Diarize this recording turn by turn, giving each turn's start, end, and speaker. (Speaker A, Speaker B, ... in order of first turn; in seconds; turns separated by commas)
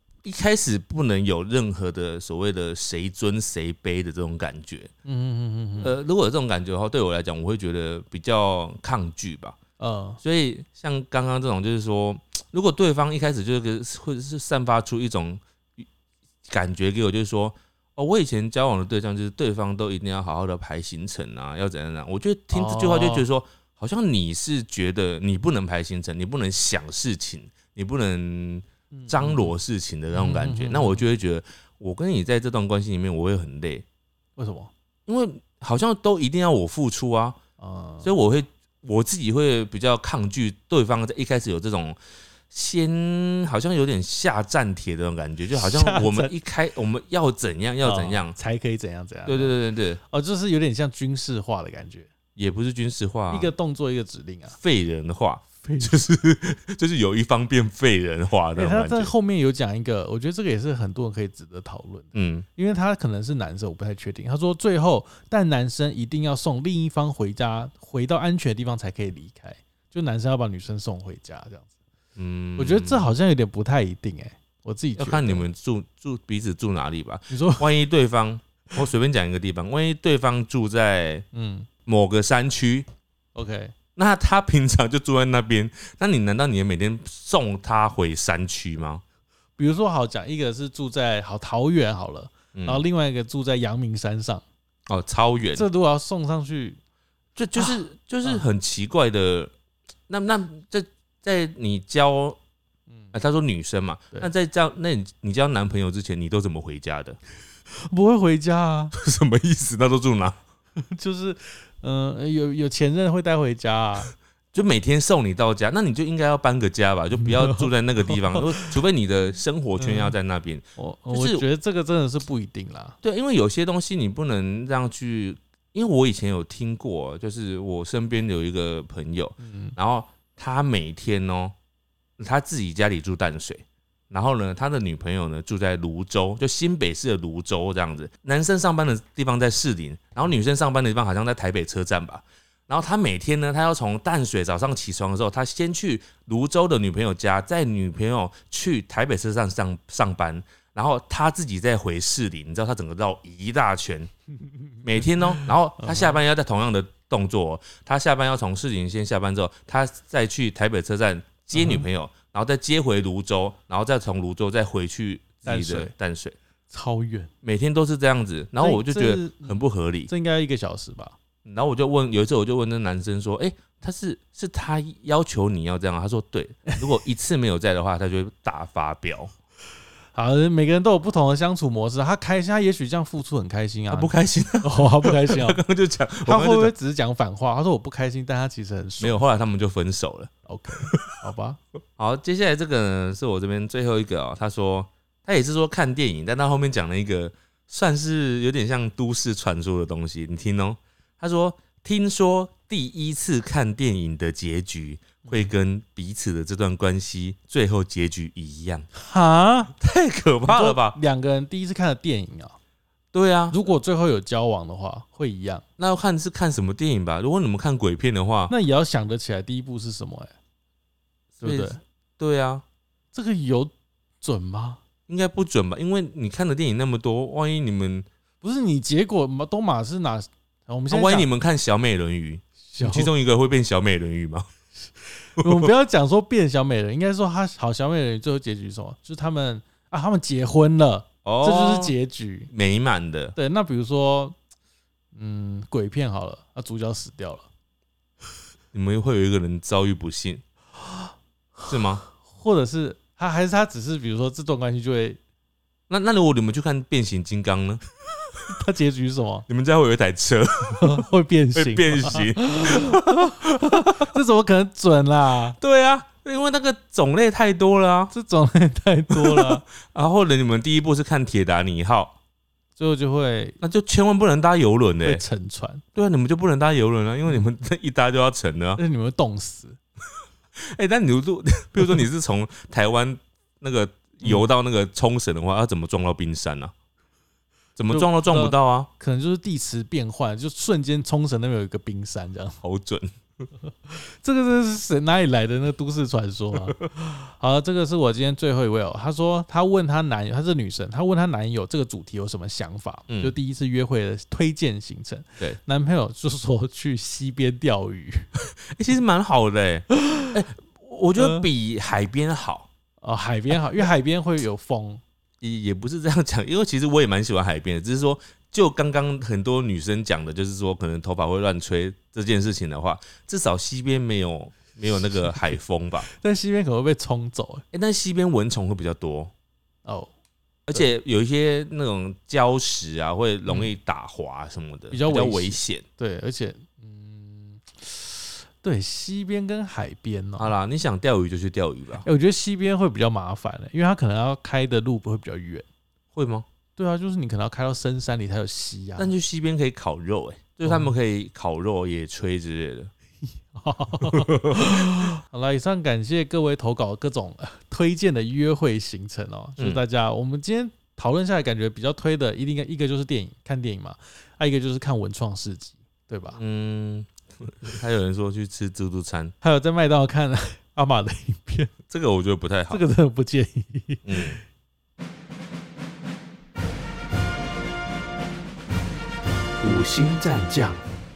Speaker A: 0.2-4.9, Speaker B: 5.0-6.0, Speaker A: 5.8-9.6, Speaker B: 9.8-10.2, Speaker A: 10.2-15.8, Speaker A: 16.5-33.9, Speaker B: 22.5-23.3, Speaker B: 28.9-29.5, Speaker B: 30.1-31.1, Speaker B: 34.4-34.7, Speaker A: 35.1-37.4, Speaker B: 37.6-38.1, Speaker A: 38.0-42.0, Speaker A: 42.5-48.4, Speaker B: 45.6-46.3, Speaker B: 47.8-49.5, Speaker A: 49.3-50.0, Speaker B: 50.1-52.1, Speaker A: 52.4-53.5, Speaker B: 53.3-54.6, Speaker A: 54.5-59.1, Speaker B: 55.6-56.0, Speaker B: 58.5-71.7, Speaker A: 62.1-62.5, Speaker A: 72.2-73.1, Speaker B: 72.6-75.5, Speaker A: 75.0-81.3, Speaker B: 77.3-77.8, Speaker B: 81.3-81.7, Speaker A: 81.9-82.9, Speaker B: 83.3-83.7, Speaker A: 84.0-89.0, Speaker B: 89.6-94.4, Speaker A: 92.5-92.8, Speaker A: 94.9-95.7, Speaker B: 95.5-96.8, Speaker A: 97.4-99.5, Speaker B: 97.6-98.4, Speaker A: 100.1-102.4, Speaker A: 103.1-107.2, Speaker B: 107.8-109.0, Speaker A: 108.9-110.4, Speaker B: 110.8-114.1, Speaker A: 114.5-121.4, Speaker B: 117.2-118.7, Speaker B: 119.8-120.2, Speaker B: 120.8-123.0, Speaker A: 123.0-131.6, Speaker B: 129.4-129.8, Speaker A: 132.2-154.1, Speaker A: 154.8-166.4, Speaker B: 155.8-156.2, Speaker B: 161.5-161.9, Speaker B: 165.5-165.9, Speaker B: 166.7-167.3, Speaker A: 167.4-170.1, Speaker B: 168.6-171.2, Speaker A: 171.4-179.3, Speaker B: 180.2-185.6, Speaker A: 183.9-186.7, Speaker B: 186.2-189.2, Speaker A: 189.0-191.2, Speaker B: 190.5-191.6, Speaker A: 192.0-208.9, Speaker B: 205.2-205.5, Speaker B: 208.9-209.7, Speaker A: 209.8-211.0, Speaker B: 210.5-212.6, Speaker A: 213.1-213.6, Speaker B: 213.5-215.6, Speaker A: 215.8-218.5, Speaker B: 218.5-220.3, Speaker B: 221.4-221.8, Speaker A: 221.4-222.6, Speaker B: 223.1-224.8, Speaker A: 225.1-228.1, Speaker B: 228.4-231.3, Speaker A: 230.9-234.5, Speaker B: 232.6-233.1, Speaker B: 235.2-242.5, Speaker A: 235.4-235.7, Speaker A: 241.2-241.9, Speaker A: 242.5-243.3, Speaker B: 243.3-244.4, Speaker B: 245.2-247.5, Speaker A: 248.7-250.4, Speaker A: 251.7-252.0, Speaker B: 252.2-255.2, Speaker A: 255.9-257.8, Speaker B: 258.5-259.5, Speaker A: 259.5-261.0, Speaker B: 260.7-265.6, Speaker A: 261.6-264.1, Speaker A: 265.6-268.1, Speaker B: 268.1-269.7, Speaker A: 269.1-272.1, Speaker B: 272.8-273.6, Speaker A: 273.6-275.2, Speaker B: 275.0-275.8, Speaker A: 275.9-278.8, Speaker B: 278.8-279.8, Speaker A: 280.6-286.7, Speaker B: 284.2-284.5, Speaker A: 287.8-288.9, Speaker B: 287.9-292.6, Speaker A: 292.6-293.1, Speaker B: 293.9-308.3, Speaker A: 303.1-303.3, Speaker A: 308.6-312.7, Speaker B: 309.9-310.3, Speaker B: 311.2-311.4, Speaker B: 313.0-315.0, Speaker A: 315.4-326.1, Speaker B: 325.1-325.5, Speaker B: 326.1-327.6, Speaker A: 327.7-329.3, Speaker B: 329.9-330.1, Speaker A: 330.7-335.9, Speaker B: 333.5-333.7, Speaker B: 334.9-340.5, Speaker A: 340.4-342.1, Speaker B: 342.0-345.6, Speaker A: 346.1-346.5, Speaker B: 346.8-349.1, Speaker A: 349.0-352.9, Speaker B: 350.6-350.9, Speaker B: 353.5-366.4, Speaker A: 354.0-354.9, Speaker A: 366.4-369.3, Speaker B: 369.4-371.7, Speaker A: 371.9-372.8, Speaker B: 372.7-374.4, Speaker A: 374.1-374.4, Speaker A: 379.6-380.8